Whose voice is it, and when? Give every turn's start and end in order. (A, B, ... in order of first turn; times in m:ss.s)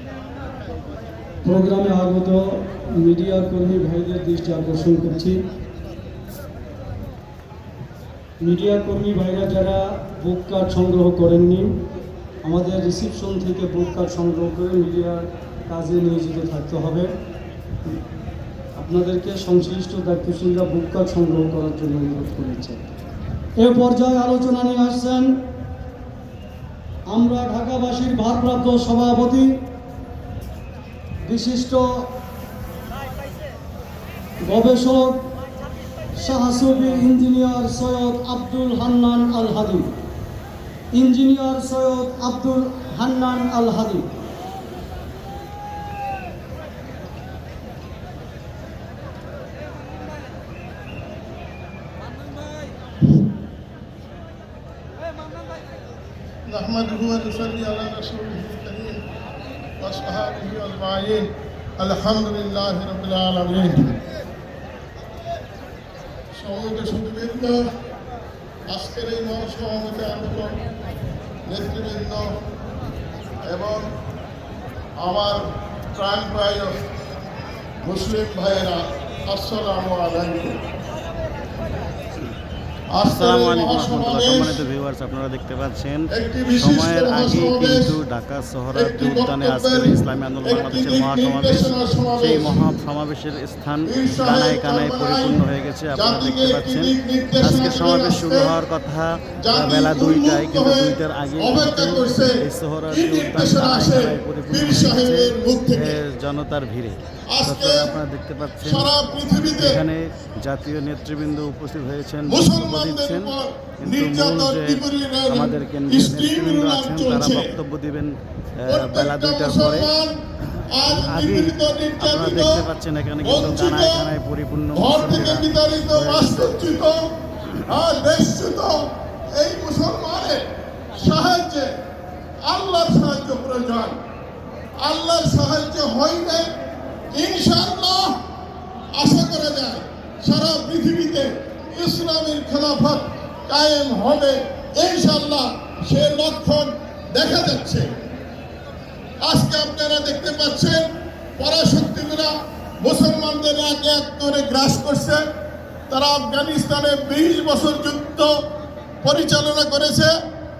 0:01.4-0:05.4 A
0:08.4-0:11.7 A
0:12.4-0:17.1 A
0:18.8-0:23.0 A
0:23.6-0:25.4 A
0:27.1-0:29.6 A
0:31.2-0:32.1 A
0:34.4-0:35.3 A
0:36.2-0:39.9 A
0:40.9-0:44.1 A
0:56.4-0:59.0 B
0:59.8-1:04.0 B
1:06.3-1:07.6 B
1:08.7-1:10.6 B
1:11.4-1:12.3 B
1:13.4-1:13.8 B
1:15.0-1:16.7 B
1:17.8-1:20.6 B
1:22.9-1:24.6 B
1:23.1-1:48.9 C
1:26.1-1:28.0 B
1:28.7-1:32.7 B
1:33.8-1:38.5 B
1:39.4-1:42.3 B
1:42.9-1:46.0 B
1:47.3-1:47.9 B
1:48.6-1:49.8 B
1:49.5-1:59.9 C
1:52.2-1:57.5 B
1:58.7-2:00.1 B
2:00.7-2:02.6 B
2:00.9-2:06.5 C
2:03.2-2:04.1 B
2:04.7-2:07.1 B
2:07.7-2:10.4 B
2:11.0-2:11.7 B
2:12.4-2:14.0 B
2:14.8-2:16.5 B
2:17.1-2:18.2 B
2:18.9-2:27.9 B
2:29.2-2:35.2 B
2:35.9-2:38.3 B
2:39.0-2:40.1 B